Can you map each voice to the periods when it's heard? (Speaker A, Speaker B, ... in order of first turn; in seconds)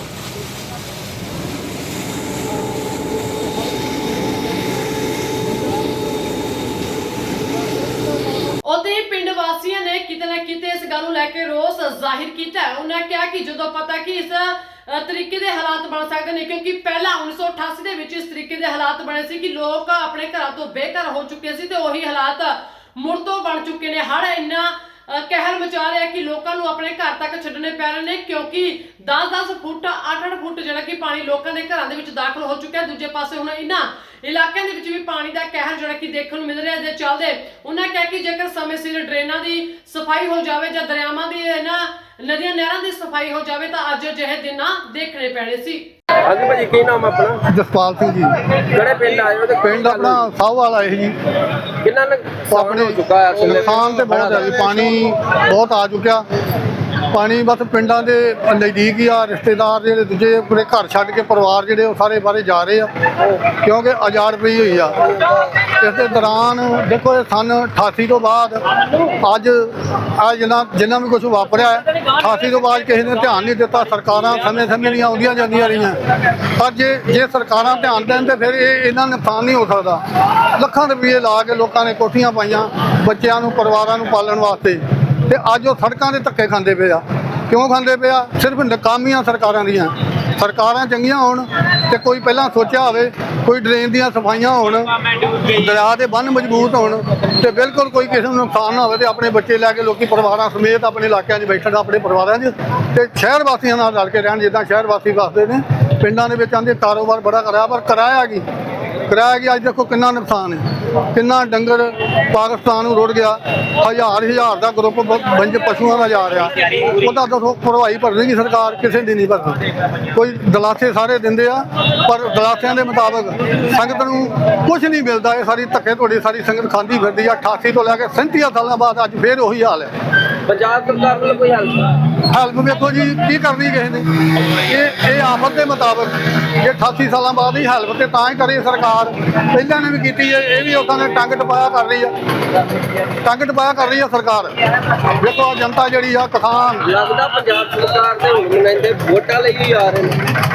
Speaker A: 8.6-45.8
Speaker B: 46.2-47.4, 48.6-50.2, 51.8-55.1, 130.5-132.0, 146.8-150.2
Speaker C: 47.5-48.3, 49.6-51.1, 52.5-56.2, 57.1-62.9, 63.5-65.1, 65.6-80.0, 80.5-108.4, 109.1-119.6, 120.1-129.9, 132.1-142.1, 143.2-144.5, 145.1-146.9